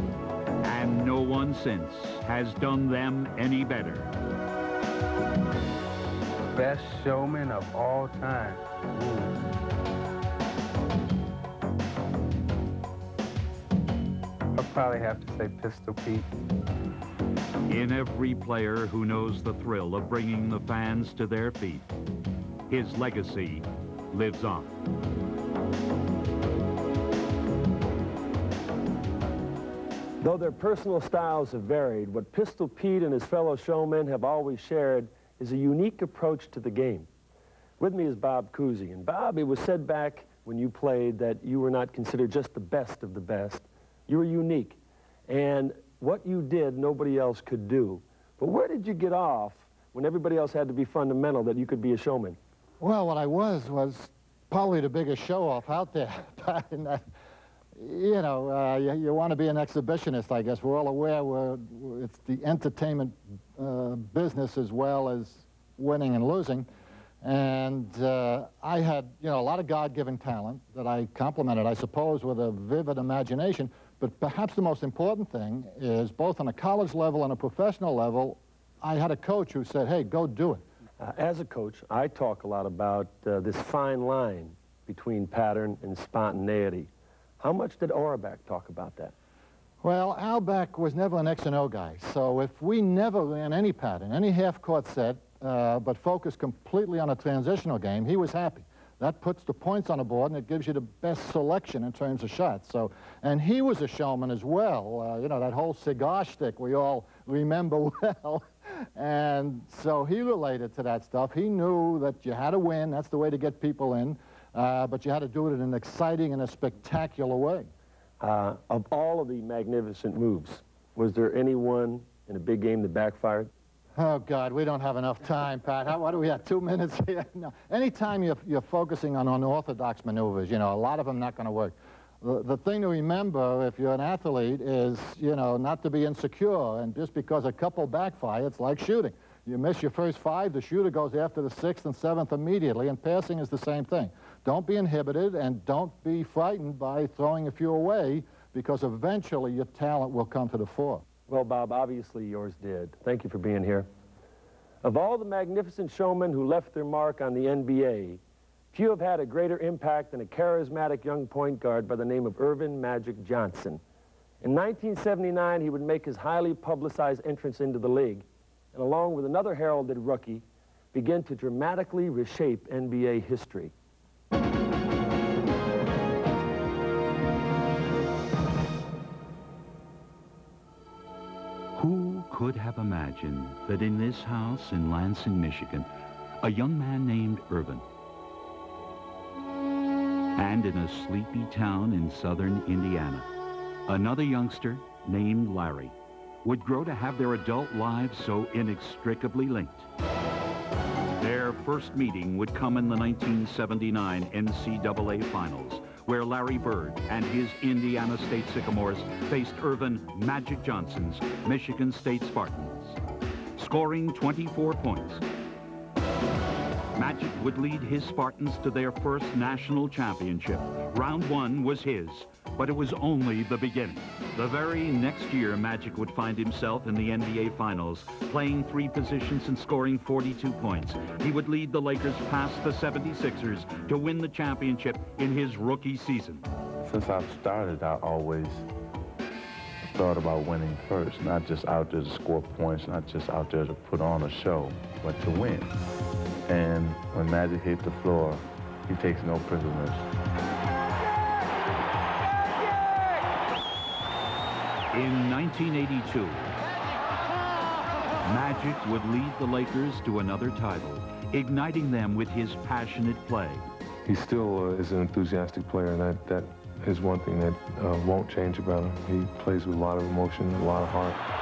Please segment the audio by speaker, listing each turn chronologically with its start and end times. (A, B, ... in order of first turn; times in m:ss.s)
0:00.6-0:04.1 A
0:06.5-0:09.3 B
0:14.6-0:16.3 B
0:17.7-0:21.9 A
0:22.7-0:24.8 A
0:30.2-0:37.1 C
0:37.8-0:52.4 C
0:52.8-0:57.0 D
0:57.8-1:06.7 D
1:07.2-1:20.6 D
1:21.0-1:29.1 C
1:29.8-1:57.7 D
1:58.2-2:03.5 C
2:04.0-2:31.0 D
2:31.3-2:33.9 C
2:34.8-2:43.8 C
2:44.4-2:53.7 C
3:01.8-3:05.9 A
3:06.4-3:07.8 A
3:10.4-3:13.3 A
3:13.9-3:19.9 A
3:21.2-3:33.0 A
3:33.6-3:35.2 A
3:37.0-3:56.5 A
3:56.8-3:58.7 E
3:59.9-4:05.8 E
4:06.5-4:10.0 E
4:14.9-4:16.6 A
4:18.2-4:23.7 A
4:24.0-4:31.2 F